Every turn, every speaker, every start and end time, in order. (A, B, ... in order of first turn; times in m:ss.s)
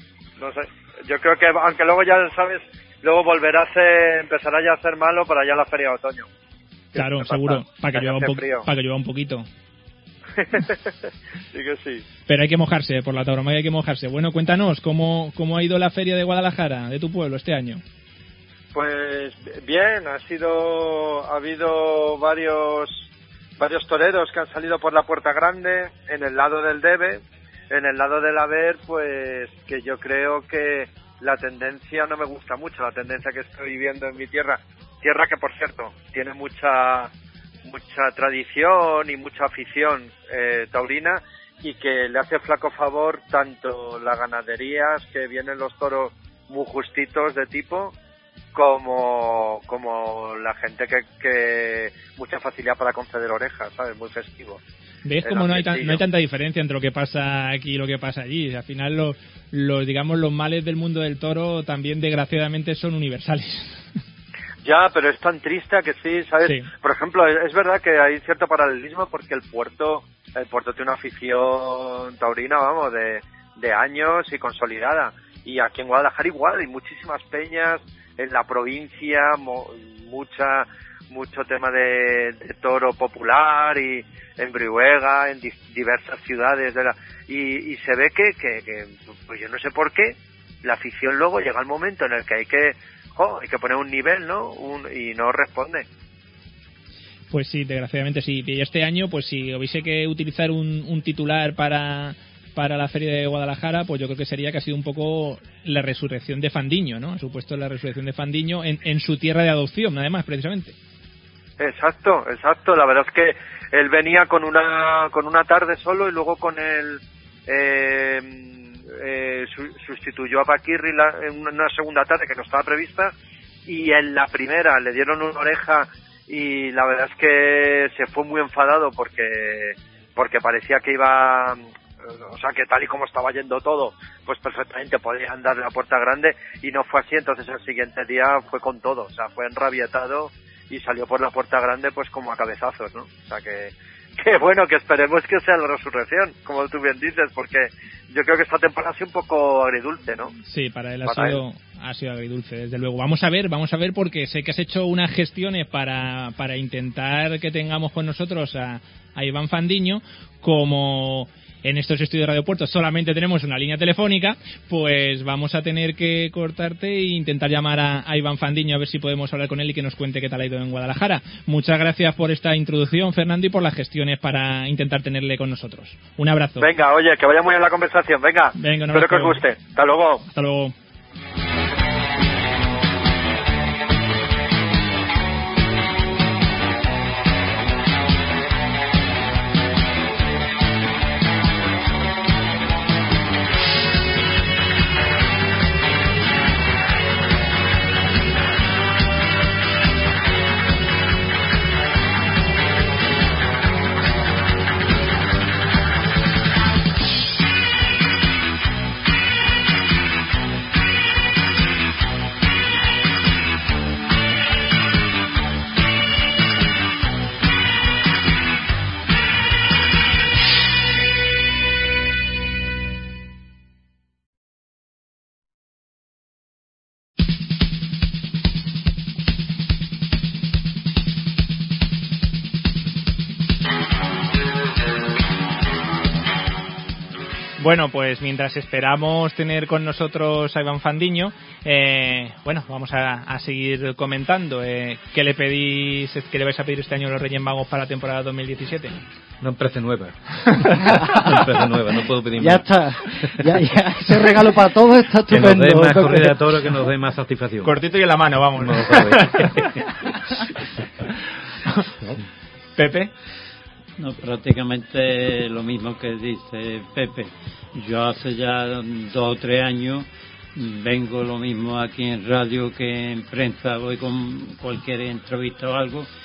0:00.4-0:06.3 A
0:06.9-0:08.7 A
0:07.0-0:09.5 B
0:10.4-0:10.8 A
0:11.5-0:12.0 A
0:12.3-0:17.8 B
0:18.7-0:23.1 A
0:23.6-0:37.1 A
0:37.6-0:47.9 A
0:48.5-0:54.6 A
0:55.0-1:03.8 B
0:55.2-0:56.0 A
1:04.6-1:35.8 A
1:06.4-1:06.7 B
1:37.3-1:50.8 B
1:51.6-2:03.1 A
2:03.7-2:30.3 A
2:30.4-2:56.7 B
2:31.0-2:31.4 A
2:56.6-3:00.2 A
2:58.6-2:59.4 B
3:00.3-3:00.7 B
3:57.6-4:09.0 B
4:09.4-4:12.7 C
4:10.5-4:11.2 B
4:12.4-4:16.4 D
4:15.3-4:17.7 C
4:17.6-4:19.7 B
4:18.6-4:19.8 C
4:22.8-4:23.1 B
4:24.0-4:36.1 E